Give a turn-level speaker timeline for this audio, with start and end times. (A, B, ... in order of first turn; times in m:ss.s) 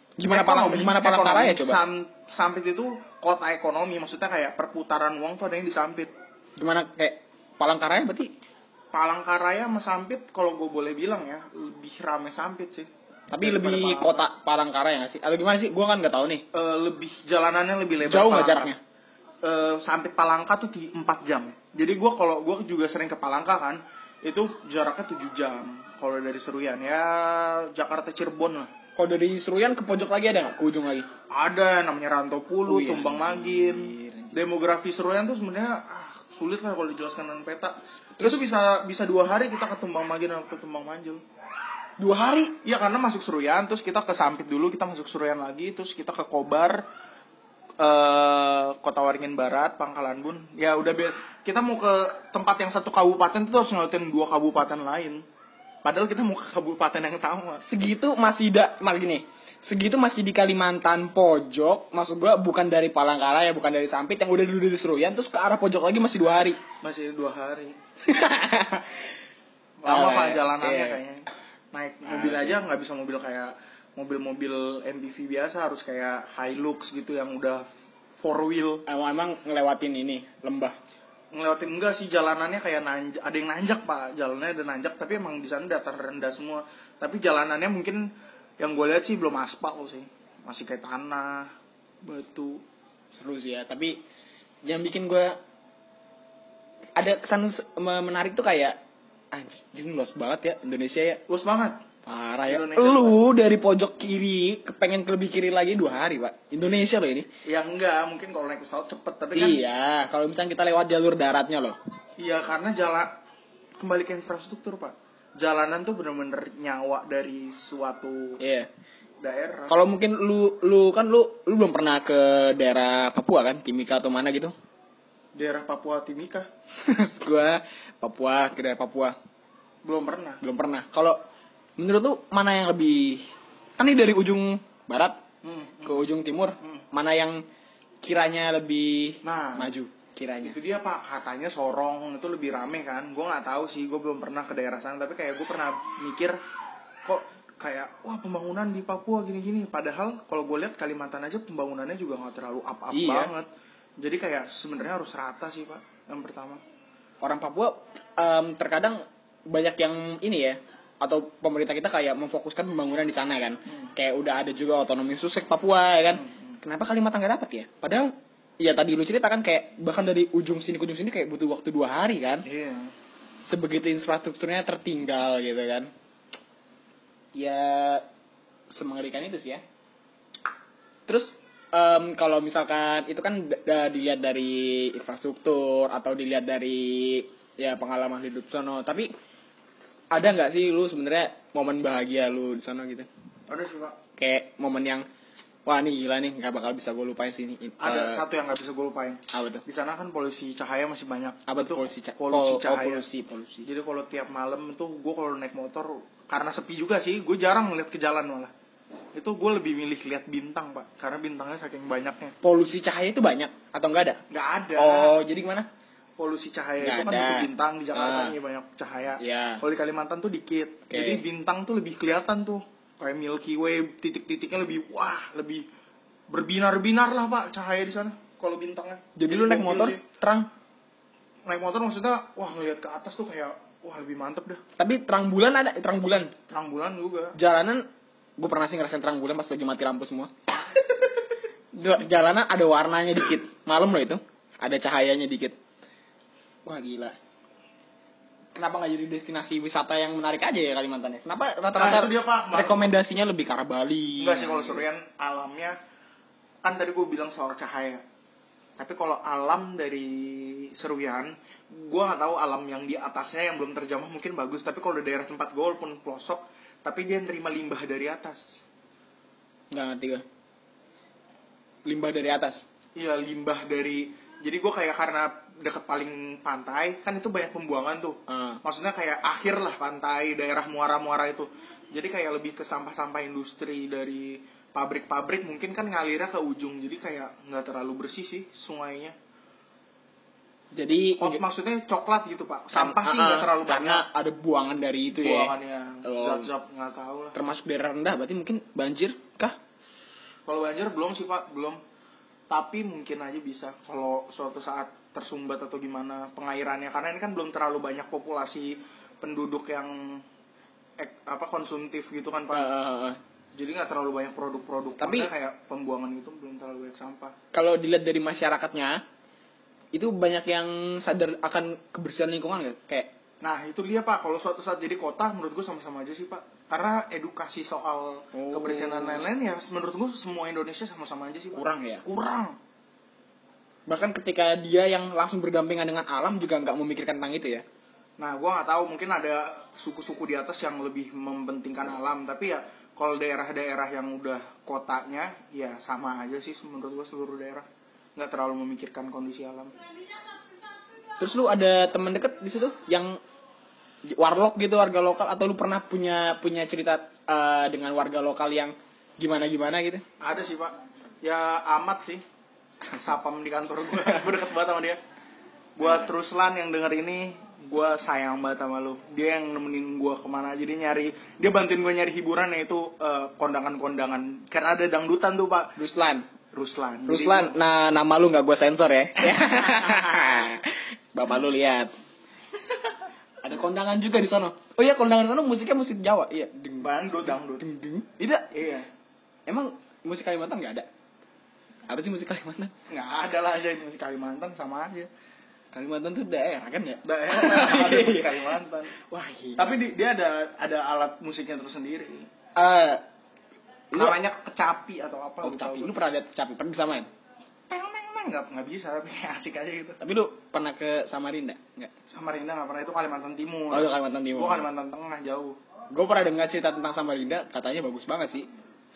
0:00.2-0:01.8 A
0:00.3-0:06.1 B
0:06.6-0:08.3 A
0:08.9-0:12.9 B
0:13.3-0:16.4 A
0:13.4-0:14.2 B
0:16.5-0:18.7 B
0:18.0-0:18.8 A
0:19.4-0:28.7 B
0:29.0-0:31.1 A
0:31.3-0:41.2 B
0:32.7-0:34.4 A
0:42.0-0:42.6 A
0:42.6-0:46.8 B
0:47.8-0:55.2 B
0:55.8-0:57.6 B
0:57.6-1:06.6 A
1:06.8-1:07.8 B
1:08.0-1:09.1 A
1:09.8-1:17.6 B
1:09.8-1:11.0 A
1:12.0-1:12.6 A
1:18.2-1:18.8 B
1:18.8-1:20.8 A
1:21.3-1:28.1 B
1:28.6-1:31.5 B
1:32.0-1:32.6 B
1:33.1-1:34.0 A
1:34.6-1:35.4 A
1:37.0-1:38.7 A
1:39.3-1:41.2 A
1:41.3-1:41.8 B
1:42.0-1:47.3 A
1:42.4-1:43.2 B
1:47.4-1:49.6 B
1:49.3-1:51.8 A
1:52.2-1:53.1 B
1:53.8-1:58.4 B
1:58.4-1:58.7 A
1:59.2-1:59.8 B
1:59.7-2:04.5 A
2:05.3-2:06.5 B
2:06.8-2:09.2 A
2:09.8-2:10.4 B
2:10.4-2:11.2 A
2:11.8-2:15.2 A
2:15.4-2:16.0 B
2:15.8-2:17.4 A
2:18.0-2:20.6 A
2:19.2-2:19.7 B
2:20.4-2:26.4 B
2:27.0-2:33.5 B
2:32.9-2:33.3 A
2:34.0-2:36.6 B
2:37.2-2:52.4 A
2:46.1-2:46.6 B
2:52.4-2:52.9 B
2:53.4-2:55.9 A
2:57.3-2:58.0 A
2:58.7-2:59.6 A
3:01.1-3:09.1 A
3:10.1-3:13.1 A
3:13.5-3:14.0 B
3:14.2-3:15.0 A
3:15.6-3:18.2 A
3:17.8-3:23.0 B
3:19.3-3:19.6 A
3:21.5-3:23.7 A
3:23.6-3:28.5 B
3:29.1-3:32.3 B
3:32.4-3:34.2 A
3:34.3-3:35.2 B
3:34.8-3:35.7 A
3:36.2-3:45.6 B
3:36.8-3:38.4 A
3:39.2-3:39.6 A
3:40.9-3:41.2 A
3:46.3-3:50.0 B
3:49.2-3:50.5 A
3:51.4-3:54.6 B
3:54.8-3:56.3 A
3:56.5-3:57.4 B
3:57.4-3:57.8 A
3:58.4-4:01.0 A
4:01.7-4:05.6 A
4:06.6-4:07.1 A
4:08.5-4:14.8 A
4:11.7-4:12.9 B
4:14.2-4:15.8 B
4:16.6-4:18.0 B
4:18.8-4:28.6 B
4:29.7-4:30.2 A
4:31.8-4:32.6 A
4:33.0-4:49.1 B
4:38.3-4:38.6 A
4:50.7-4:51.4 A
4:51.2-4:54.0 B
4:52.7-4:56.5 A
4:55.1-4:57.4 B
4:57.3-4:59.6 A
5:00.4-5:01.8 B
5:02.5-5:10.2 B
5:11.0-5:12.7 B
5:12.5-5:13.2 A
5:13.5-5:17.3 B
5:15.0-5:15.3 A
5:17.5-5:19.0 A
5:19.9-5:23.1 A
5:23.4-5:32.6 B
5:28.3-5:29.2 A
5:31.5-5:32.0 A
5:33.9-5:37.6 A
5:38.2-5:49.7 B
5:51.2-5:53.2 A
5:54.1-6:00.0 A
6:00.2-6:02.2 B
6:02.9-6:05.0 B
6:05.8-6:15.7 B
6:15.8-6:16.3 A
6:16.5-6:17.6 B
6:17.1-6:21.9 A
6:19.3-6:19.9 B
6:23.4-6:28.5 A
6:26.8-6:27.6 B
6:28.5-6:28.9 B
6:29.5-6:30.9 A
6:31.9-6:32.7 A
6:32.9-6:35.1 B
6:35.7-6:38.4 A
6:37.0-6:39.0 B
6:39.0-6:39.8 A
6:39.6-6:42.3 B
6:42.6-6:43.0 A
6:43.9-6:44.2 A
6:43.9-6:45.9 B
6:45.4-6:47.1 A
6:47.7-6:50.0 B
6:50.0-6:51.9 A
6:52.1-6:55.6 B
6:53.7-6:54.7 A
6:55.9-6:58.4 A